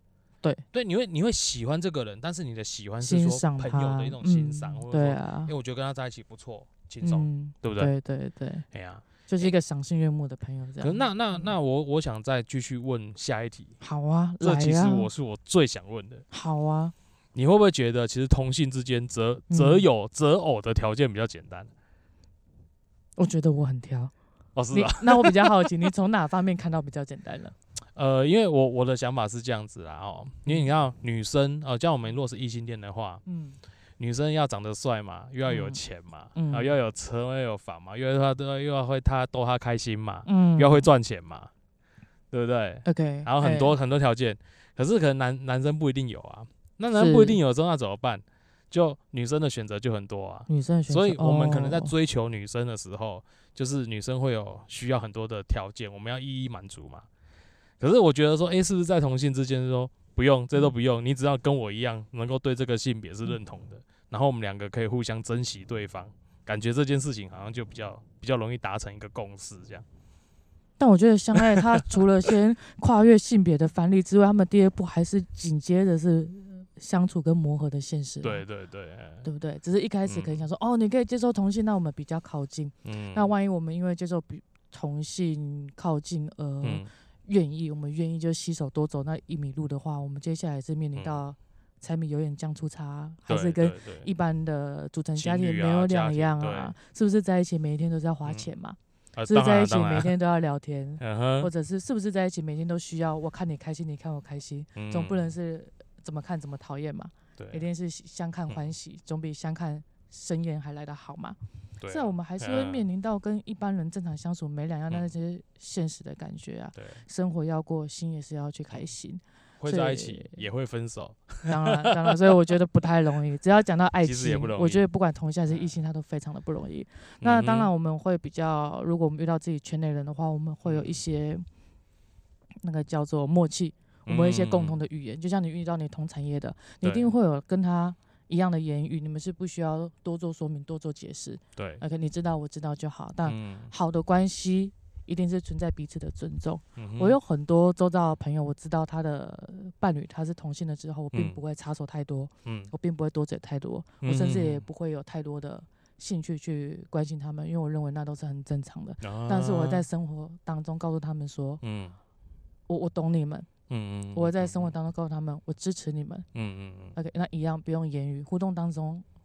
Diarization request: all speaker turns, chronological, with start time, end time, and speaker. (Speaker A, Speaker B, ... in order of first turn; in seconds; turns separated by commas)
Speaker A: 0.7-7.9, Speaker B: 3.0-5.5, Speaker B: 7.0-8.7, Speaker A: 8.7-9.5, Speaker B: 9.3-11.5, Speaker A: 10.8-13.8, Speaker B: 13.8-15.1, Speaker A: 14.4-16.2, Speaker B: 16.3-16.9, Speaker A: 17.4-21.7, Speaker B: 19.5-19.9, Speaker B: 23.2-24.1, Speaker A: 24.6-25.9, Speaker B: 24.7-27.6, Speaker A: 27.9-33.2, Speaker B: 33.3-33.6, Speaker A: 34.0-41.5, Speaker B: 35.5-35.8, Speaker B: 36.4-36.7, Speaker B: 40.3-40.9, Speaker A: 42.3-57.1, Speaker B: 42.9-43.8, Speaker B: 46.9-47.4, Speaker B: 50.5-51.9, Speaker A: 57.8-69.8, Speaker B: 70.8-78.4, Speaker A: 71.3-72.0, Speaker A: 78.2-79.3, Speaker B: 79.2-98.8, Speaker A: 80.1-80.4, Speaker A: 82.8-83.3, Speaker A: 86.6-86.9, Speaker A: 91.0-91.2, Speaker A: 93.3-94.1, Speaker A: 95.2-96.8, Speaker A: 99.2-100.1, Speaker B: 99.3-120.4, Speaker A: 101.0-101.5, Speaker A: 104.8-105.3, Speaker A: 107.4-107.7, Speaker A: 111.8-112.9, Speaker A: 119.6-122.2, Speaker B: 121.5-131.5, Speaker A: 124.0-124.9, Speaker A: 127.2-127.7, Speaker A: 130.7-131.0, Speaker B: 132.6-161.6, Speaker A: 134.1-134.8, Speaker A: 136.8-137.1, Speaker A: 141.6-141.8, Speaker A: 143.3-143.7, Speaker A: 146.8-147.2, Speaker A: 151.1-151.4, Speaker A: 152.4-152.7, Speaker A: 154.0-154.7, Speaker A: 159.0-159.9, Speaker A: 161.6-162.0, Speaker B: 162.7-163.5, Speaker A: 163.7-164.7, Speaker B: 164.1-166.3, Speaker A: 166.3-167.0, Speaker B: 166.9-169.1